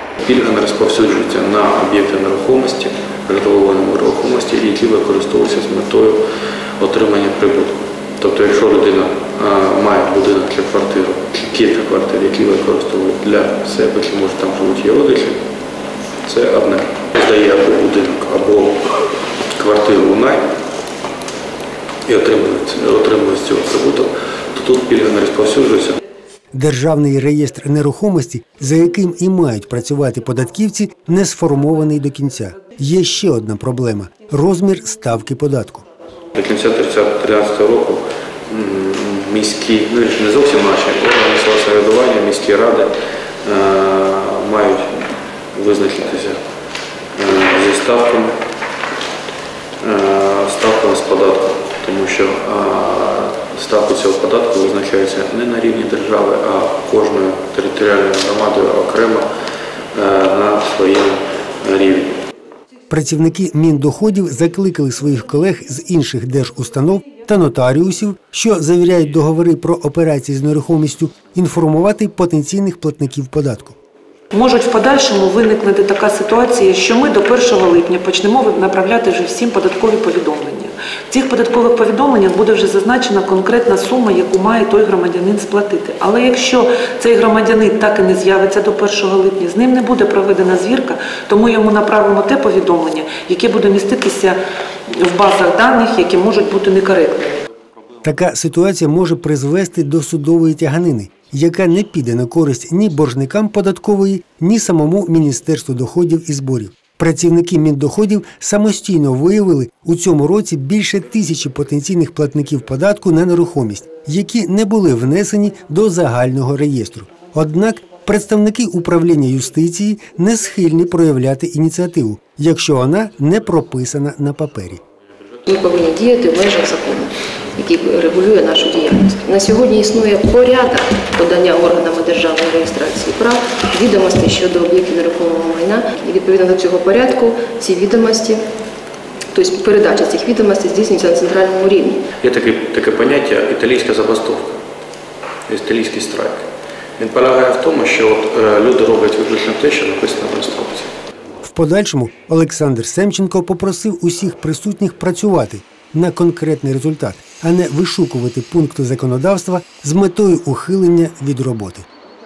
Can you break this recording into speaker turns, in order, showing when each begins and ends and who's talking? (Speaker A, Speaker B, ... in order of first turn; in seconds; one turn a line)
Speaker A: 0.2-6.2
Speaker A: 6.8-15.4
Speaker A: 16.2-18.9
Speaker A: 19.5-20.4
Speaker A: 22.1-26.0
Speaker B: 26.5-35.8
Speaker A: 36.3-42.9
Speaker A: 43.4-45.0
Speaker A: 45.5-46.4
Speaker A: 47.1-48.3
Speaker A: 49.8-59.2
Speaker A: 59.9-62.1
Speaker B: 62.9-73.8
Speaker C: 74.3-97.4
Speaker B: 98.0-124.8
Speaker D: 125.5-138.4
Speaker D: 139.3-142.0
Speaker A: 142.2-144.6
Speaker A: 145.5-146.4
Speaker A: 147.0-150.9
Speaker B: 151.4-161.8